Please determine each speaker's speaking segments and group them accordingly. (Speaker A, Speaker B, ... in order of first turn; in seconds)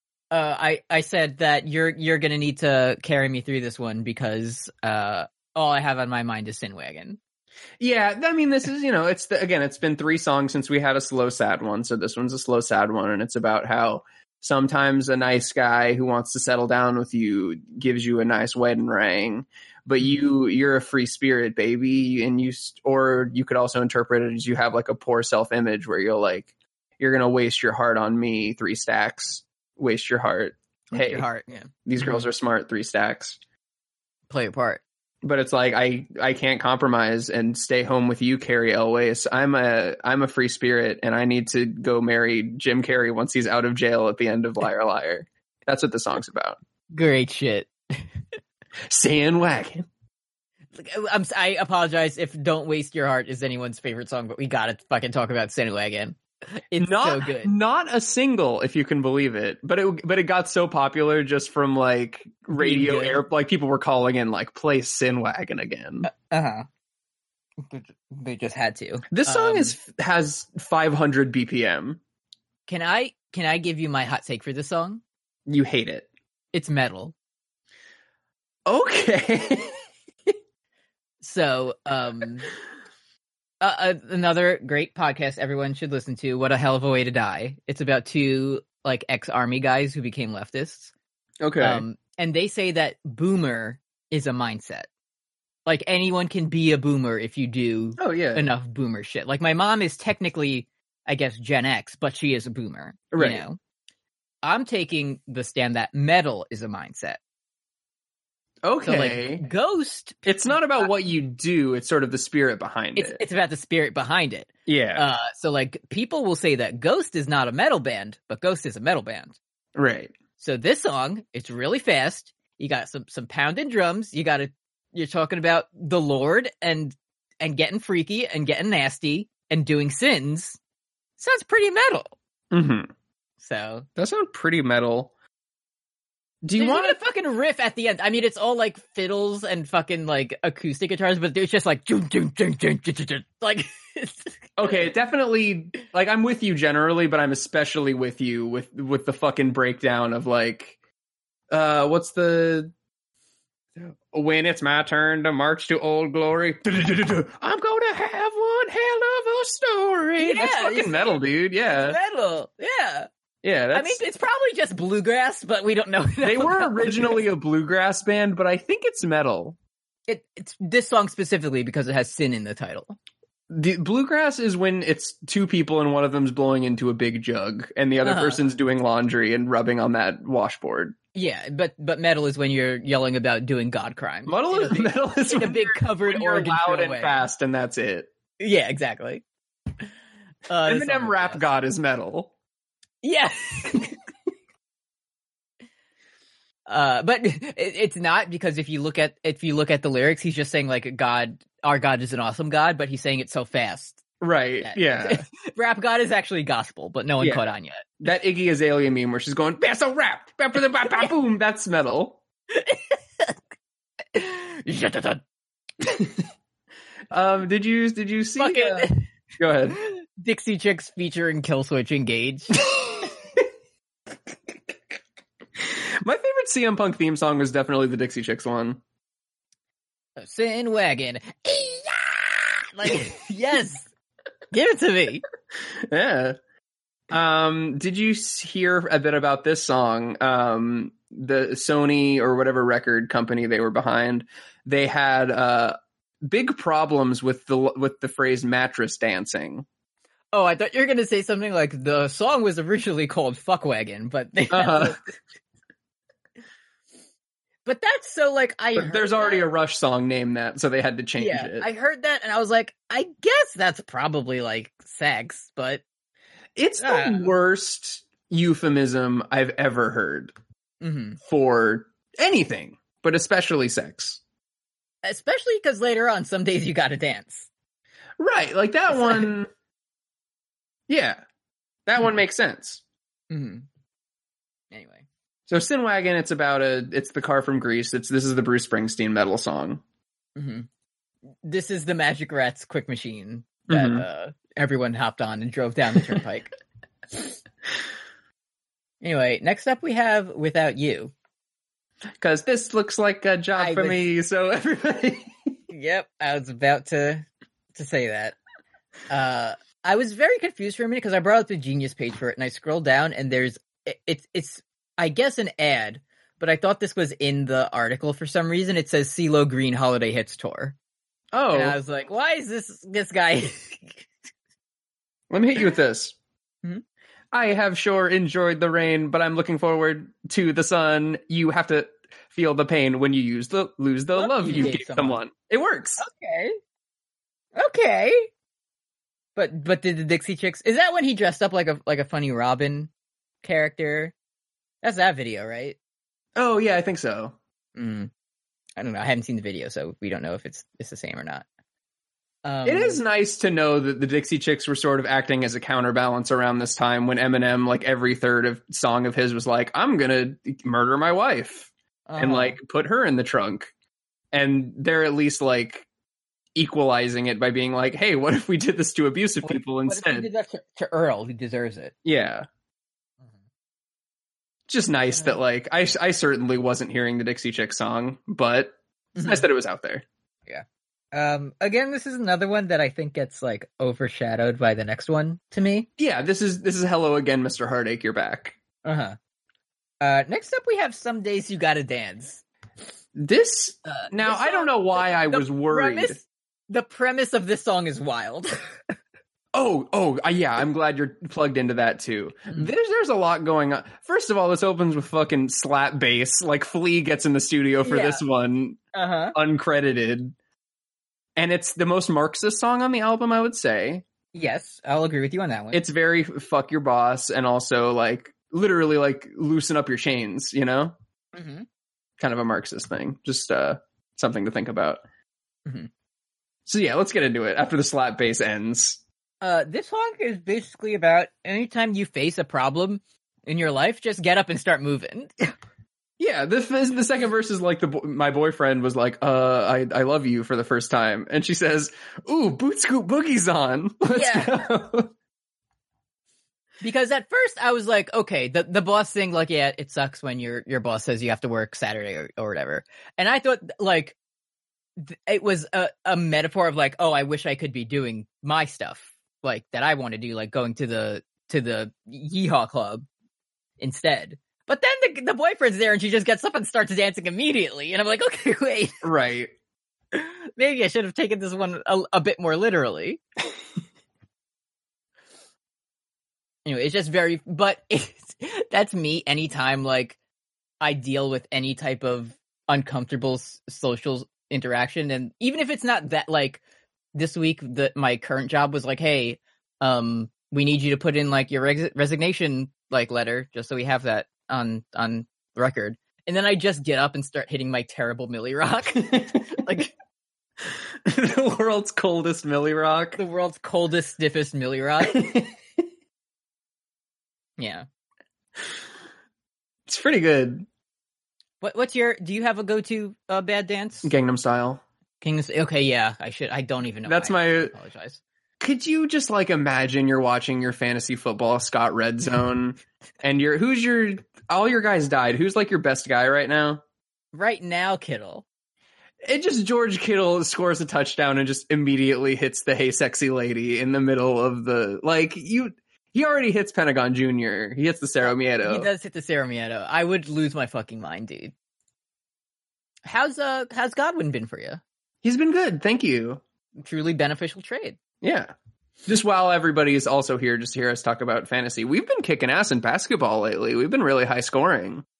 Speaker A: 0.3-7.2, 30.9-32.2, 34.3-34.8, 46.9-48.0, 50.7-57.5, 62.5-63.2, 66.0-66.7, 67.6-69.8, 72.7-75.0, 76.5-77.1, 81.2-82.5, 83.6-90.9, 91.6-94.9, 95.7-103.6, 104.4-107.2, 108.8-110.9, 113.0-119.4, 120.4-130.6, 131.2-132.1, 133.4-133.8, 136.6-144.3, 160.2-163.1, 163.7-167.2, 170.1-173.0, 178.0-178.4, 181.1-187.2, 188.4-189.2, 190.5-191.4, 193.0-193.9, 196.7-204.0, 204.6-207.9, 212.5-213.3, 214.1-215.2, 218.4-219.1, 219.7-222.6, 230.2-233.9, 234.5-235.2, 250.3-255.1, 257.6-259.4, 261.2-265.8, 266.8-267.3, 270.8-271.2, 275.0-277.5, 278.9-279.3, 283.3-283.7, 284.7-285.0, 290.4-290.7, 291.4-296.5, 299.0-301.1, 303.6-304.0, 305.7-308.4, 309.1-320.7, 321.5-324.1, 334.1-335.2, 336.0-336.6, 337.6-338.3, 339.4-342.9, 343.4-344.1, 344.8-345.8, 347.8-348.1, 348.8-351.4, 352.4-353.0, 362.1-362.6, 369.4-371.9, 379.2-379.4, 380.5-385.9, 388.8-389.2, 390.0-392.4, 393.9-398.6, 407.8-408.2, 408.9-409.3, 414.3-415.8, 421.3-421.6, 429.4-435.5, 444.1-444.7, 446.8-454.2, 455.0-463.1, 463.8-469.0, 470.1-473.2, 476.6-480.2, 480.8-486.6, 487.1-499.9, 503.2-505.2, 507.6-507.9, 511.6-514.1, 515.2-518.2, 527.3-528.5, 538.2-541.5, 543.0-544.8, 546.8-548.0
Speaker B: 7.8-31.2, 31.9-33.4, 35.2-46.6, 48.9-49.9, 56.8-66.1, 69.1-72.0, 75.5-76.1, 78.7-79.8, 91.4-91.8, 98.0-98.5, 103.1-103.4, 108.6-109.4, 110.2-113.2, 114.7-115.0, 119.7-120.1, 132.5-132.9, 134.0-135.1, 136.4-137.0, 144.6-150.7, 151.5-152.7, 153.8-162.0, 163.4-164.0, 166.2-169.6, 173.5-180.9, 184.3-188.1, 190.6-192.3, 204.2-205.2, 208.0-212.2, 217.1-219.8, 225.6-228.8, 235.8-236.3, 237.1-249.6, 254.5-255.0, 258.8-261.6, 266.6-270.3, 271.2-274.2, 278.2-279.5, 280.9-281.2, 281.9-282.8, 285.5-289.8, 293.7-294.0, 302.2-305.3, 321.3-321.8, 325.3-326.1, 327.3-336.0, 346.4-347.3, 352.6-363.7, 364.3-365.9, 366.5-370.3, 372.0-372.4, 374.7-380.0, 386.0-388.5, 393.1-396.2, 399.5-408.8, 409.3-410.3, 411.4-414.0, 415.7-420.9, 422.2-425.0, 426.6-429.0, 436.2-445.1, 469.0-469.5, 501.1-503.2, 505.1-505.5, 509.9-510.6, 514.0-514.8, 517.0-517.7, 518.6-526.8, 529.2-538.9, 545.2-546.4, 548.2-548.5, 549.0-555.0